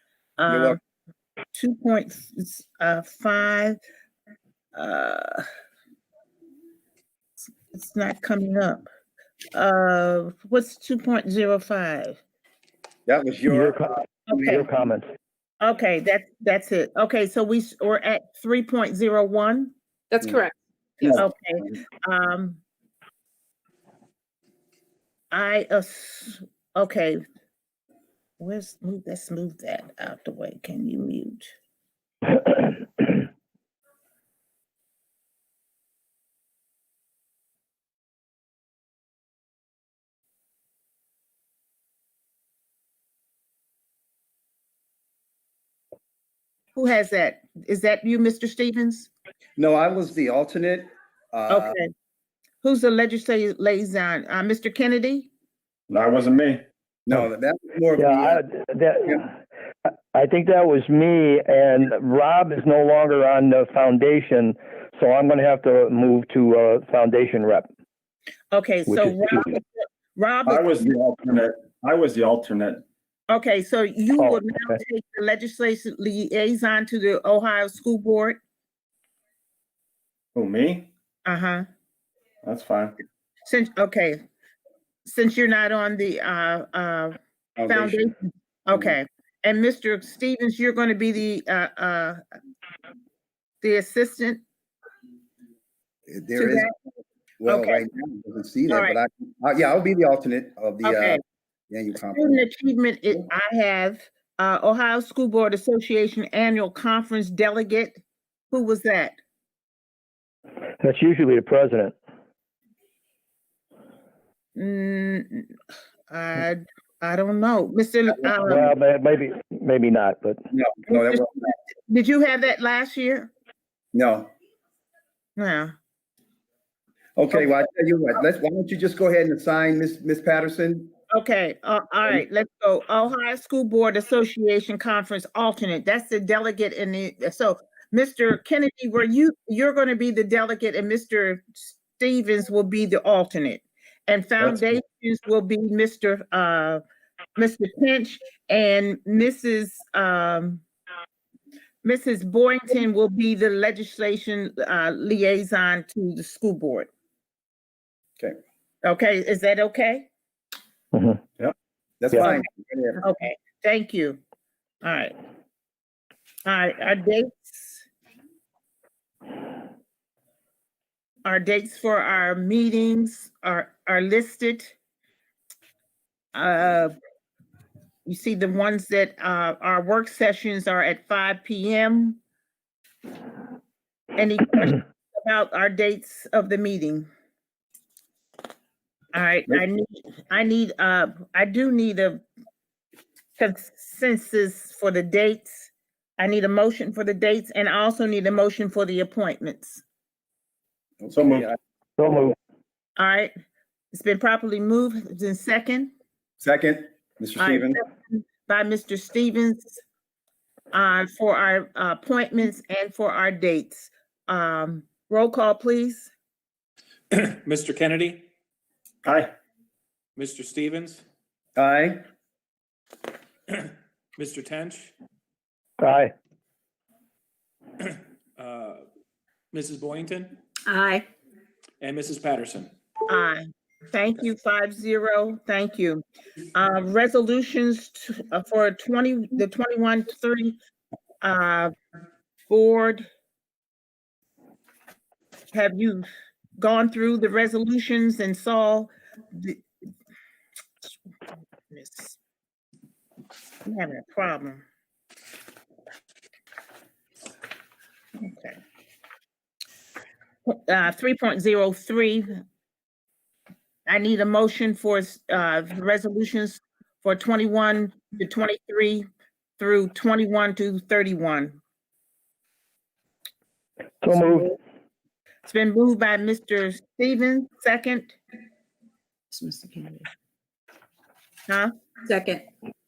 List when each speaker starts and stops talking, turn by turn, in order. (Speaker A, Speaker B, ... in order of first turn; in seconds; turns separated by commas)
Speaker A: 0.4-0.8, Speaker B: 0.5-0.8, Speaker A: 1.5-3.8, Speaker A: 4.7-5.4, Speaker A: 7.7-8.8, Speaker A: 9.5-12.2, Speaker B: 13.1-14.4, Speaker C: 13.5-15.0, Speaker A: 14.3-14.7, Speaker A: 15.6-19.7, Speaker D: 20.1-21.2, Speaker A: 21.1-22.6, Speaker A: 25.3-27.2, Speaker A: 28.4-31.5, Speaker A: 46.7-49.1, Speaker B: 49.6-51.8, Speaker A: 51.5-51.9, Speaker A: 52.6-55.3, Speaker E: 55.9-56.6, Speaker B: 57.1-58.4, Speaker C: 58.0-59.2, Speaker C: 60.1-67.7, Speaker A: 68.5-70.7, Speaker C: 68.9-69.6, Speaker E: 70.5-72.8, Speaker A: 73.3-78.4, Speaker C: 74.2-74.8, Speaker E: 80.3-80.8, Speaker A: 81.2-81.7, Speaker E: 82.4-82.9, Speaker A: 83.5-84.2, Speaker A: 85.0-92.2, Speaker B: 87.6-88.1, Speaker A: 93.6-94.4, Speaker B: 96.1-96.7, Speaker A: 96.4-96.7, Speaker B: 97.4-102.4, Speaker A: 97.5-97.9, Speaker A: 98.7-99.0, Speaker A: 100.8-101.2, Speaker A: 102.0-109.2, Speaker C: 110.8-111.9, Speaker A: 114.5-115.5, Speaker A: 116.1-118.7, Speaker B: 118.2-118.5, Speaker C: 118.4-120.4, Speaker B: 120.5-121.4, Speaker A: 120.9-123.3, Speaker B: 123.9-124.3, Speaker A: 125.3-125.7, Speaker B: 127.2-130.9, Speaker A: 131.1-146.8, Speaker A: 147.4-150.6, Speaker A: 151.8-156.9, Speaker A: 158.8-160.1, Speaker C: 160.9-161.2, Speaker B: 162.0-163.0, Speaker A: 163.0-164.2, Speaker A: 164.8-165.1, Speaker A: 166.4-167.8, Speaker A: 171.2-174.7, Speaker A: 176.3-176.9, Speaker A: 178.1-182.2, Speaker A: 184.2-187.1, Speaker A: 189.1-192.2, Speaker A: 193.4-199.8, Speaker B: 201.0-201.5, Speaker E: 201.1-201.5, Speaker C: 202.0-202.3, Speaker A: 203.0-203.3, Speaker A: 203.9-205.9, Speaker B: 206.4-207.8, Speaker A: 207.4-209.8, Speaker A: 210.7-216.1, Speaker F: 217.1-218.2, Speaker E: 219.1-219.3, Speaker F: 220.2-221.0, Speaker B: 221.6-222.0, Speaker F: 223.5-224.9, Speaker C: 225.8-226.1, Speaker F: 227.8-228.8, Speaker F: 229.5-230.4, Speaker D: 230.7-231.1, Speaker F: 231.8-232.7, Speaker A: 233.1-236.0, Speaker A: 236.5-240.6, Speaker A: 241.2-241.7, Speaker A: 242.5-243.0, Speaker A: 245.5-246.1, Speaker A: 246.6-249.6, Speaker A: 251.7-252.2, Speaker A: 253.6-254.6, Speaker A: 258.2-258.6, Speaker A: 260.4-262.4, Speaker A: 263.9-269.1, Speaker A: 269.6-271.6, Speaker C: 274.0-274.5, Speaker A: 275.4-278.2, Speaker D: 279.3-280.0, Speaker D: 282.1-282.4